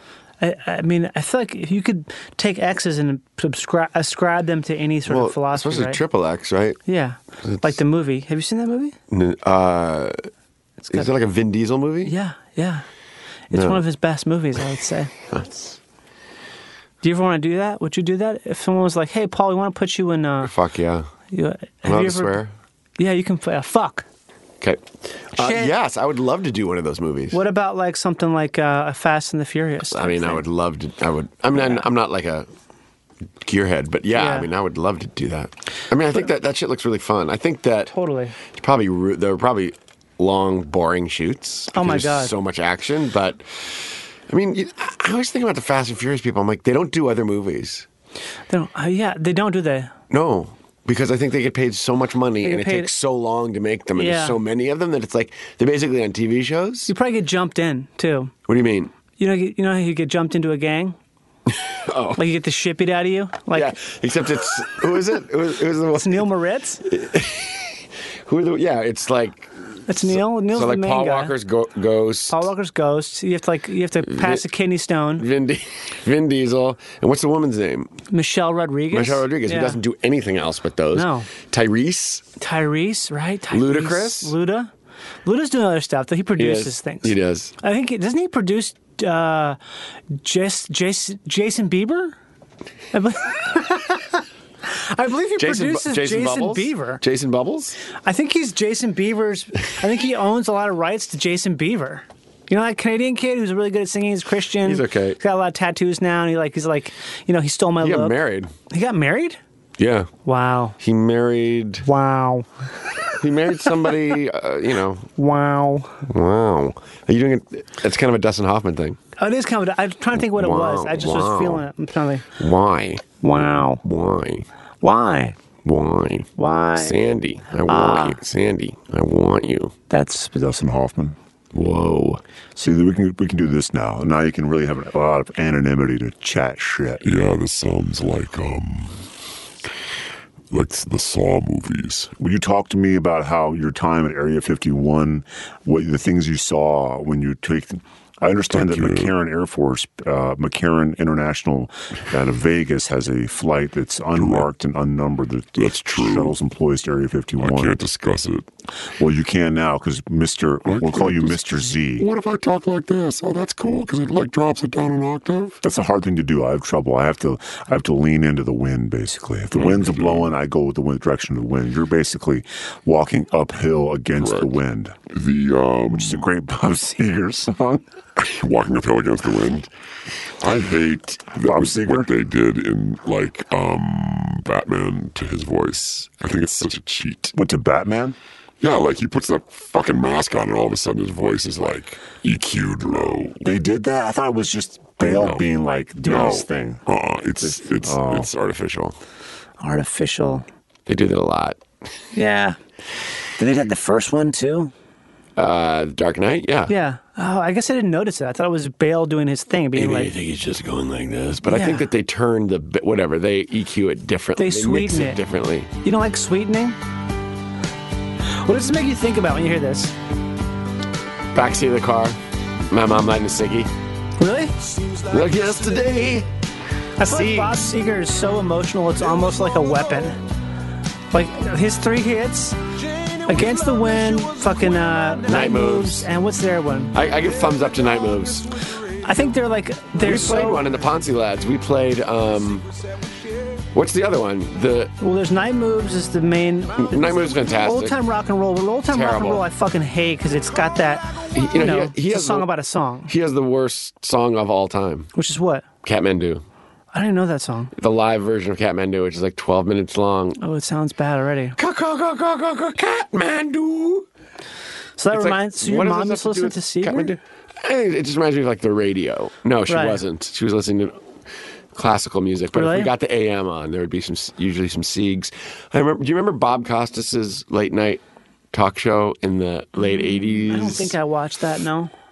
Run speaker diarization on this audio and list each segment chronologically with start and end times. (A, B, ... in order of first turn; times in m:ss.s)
0:00.4-0:06.0 A
0:05.1-0:06.8 B
0:06.8-0:09.0 A
0:07.4-0:07.7 B
0:09.1-0:10.2 B
0:10.8-0:11.1 A
0:10.9-0:12.1 B
0:12.0-0:12.8 A
0:13.5-0:15.1 A
0:13.5-0:13.8 B
0:15.3-0:15.8 B
0:17.0-0:20.5 A
0:20.4-0:21.1 B
0:21.3-0:22.4 A
0:21.8-0:22.5 B
0:23.0-0:24.0 A
0:25.3-0:27.4 B
0:25.4-0:25.7 A
0:27.3-0:30.4 A
0:29.9-0:32.5 B
0:31.5-0:31.8 A
0:33.4-0:47.8 B
0:34.1-0:34.5 A
0:37.9-0:38.4 A
0:41.7-0:42.3 A
0:48.5-0:49.9 A
0:50.1-0:56.9 B
0:52.4-0:52.9 A
0:54.0-0:54.4 A
0:56.9-0:58.3 A
0:58.5-0:58.9 B
0:59.2-1:01.0 A
1:01.6-1:02.2 B
1:02.2-1:03.7 A
1:03.5-1:06.2 B
1:06.0-1:06.8 A
1:06.8-1:12.5 B
1:09.9-1:11.3 A
1:12.3-1:15.2 A
1:14.1-1:14.4 B
1:15.2-1:17.9 B
1:18.1-1:19.8 A
1:18.9-1:22.2 B
1:20.9-1:21.3 A
1:22.4-1:24.7 A
1:23.5-1:24.3 B
1:25.2-1:29.6 A
1:26.4-1:27.5 B
1:30.2-1:32.2 A
1:32.9-1:37.0 A
1:35.4-1:37.8 B
1:37.9-1:48.2 A
1:44.6-1:45.2 B
1:47.8-1:48.5 B
1:48.7-1:49.4 A
1:49.8-1:50.1 B
1:50.2-1:50.7 A
1:50.8-1:51.8 B
1:51.8-1:52.9 A
1:53.2-1:55.1 B
1:55.2-1:56.0 A
1:56.1-1:59.0 B
1:59.2-2:02.3 A
2:00.2-2:01.6 B
2:02.4-2:04.4 B
2:03.2-2:03.8 A
2:04.8-2:05.4 A
2:05.6-2:09.7 B
2:06.4-2:07.0 A
2:07.6-2:08.2 A
2:09.9-2:10.4 A
2:10.3-2:11.2 C
2:11.5-2:12.2 B
2:12.6-2:17.0 C
2:17.0-2:19.0 D
2:20.5-2:22.1 D
2:22.2-2:37.8 C
2:28.5-2:29.1 D
2:34.2-2:34.5 D
2:35.6-2:36.3 D
2:37.4-2:38.5 D
2:39.0-2:42.1 C
2:40.7-2:45.6 D
2:45.6-2:55.0 C
2:49.5-2:50.3 D
2:54.2-2:54.5 D
2:55.1-2:56.2 D
2:55.9-2:57.8 C
2:58.2-2:59.7 D
3:00.4-3:07.3 D
3:01.4-3:02.1 C
3:07.3-3:08.2 C
3:08.6-3:13.5 D
3:13.4-3:16.8 C
3:15.0-3:15.5 D
3:15.5-3:16.7 A
3:16.0-3:18.6 D
3:17.8-3:18.3 C
3:18.0-3:18.9 B
3:19.6-3:20.4 A
3:20.9-3:21.6 B
3:22.1-3:22.6 A
3:23.4-3:24.7 A
3:25.4-3:26.7 B
3:26.7-3:30.1 A
3:29.7-3:35.7 B
3:31.5-3:31.8 A
3:34.4-3:35.2 A
3:35.8-3:36.8 A
3:38.3-3:39.9 A
3:41.3-3:42.2 B
3:42.7-3:43.7 B
3:44.2-3:44.6 A
3:44.9-3:46.3 B
3:47.0-3:50.2 A
3:47.0-3:47.6 B
3:51.1-3:52.6 A
3:53.2-3:56.9 A
3:55.3-3:56.1 B
3:56.9-3:58.6 B
3:59.0-4:00.6 A
4:00.0-4:02.7 B
4:03.7-4:04.9 B
4:05.0-4:07.0 A
4:06.8-4:08.0 B
4:07.6-4:13.1 A
4:08.9-4:09.4 B
4:11.3-4:12.5 B
4:13.1-4:15.1 B
4:15.1-4:15.6 A
4:15.8-4:16.4 B
4:16.9-4:17.7 A
4:17.7-4:20.4 B
4:20.4-4:21.6 A
4:21.6-4:24.1 B
4:25.0-4:27.1 A
4:25.1-4:31.0 B
4:29.7-4:30.0 A
4:31.7-4:40.9 B
4:32.5-4:32.9 A
4:40.5-4:41.9 A